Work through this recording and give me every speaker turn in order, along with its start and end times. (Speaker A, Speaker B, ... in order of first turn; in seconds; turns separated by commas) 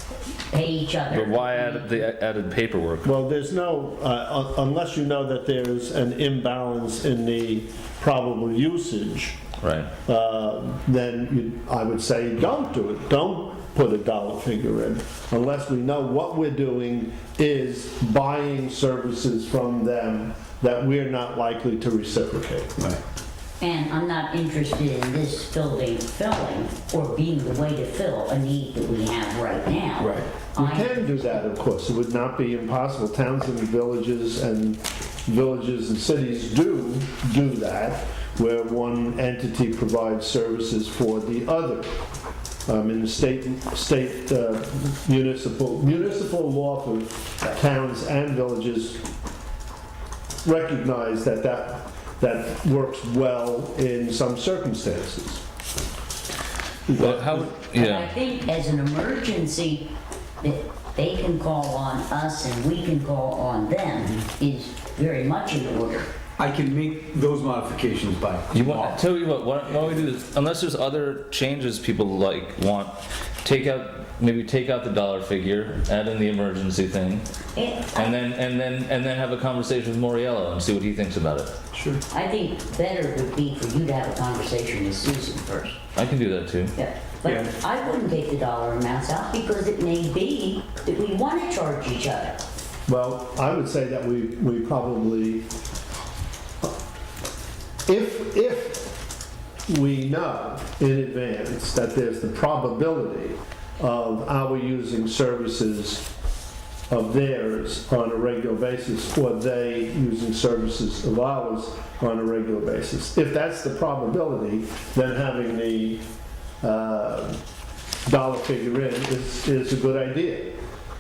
Speaker A: 0.5-2.0, Speaker B: 1.1-3.1, Speaker C: 3.0-9.4, Speaker B: 9.6-9.9, Speaker C: 10.1-22.7, Speaker A: 23.6-31.4, Speaker D: 30.0-30.3, Speaker C: 30.6-42.0, Speaker C: 42.7-49.0, Speaker C: 50.4-55.4, Speaker C: 56.9-57.5, Speaker B: 57.0-58.1, Speaker A: 57.6-66.1, Speaker D: 66.4-69.0, Speaker B: 68.5-77.3, Speaker A: 77.5-78.2, Speaker B: 78.0-81.5, Speaker D: 81.7-82.0, Speaker A: 82.1-85.8, Speaker B: 86.0-86.7, Speaker A: 86.8-92.4, Speaker C: 92.9-95.5, Speaker C: 97.9-99.0, Speaker C: 99.7-106.1, Speaker C: 106.9-116.0, Speaker C: 116.6-117.4, Speaker C: 118.0-120.6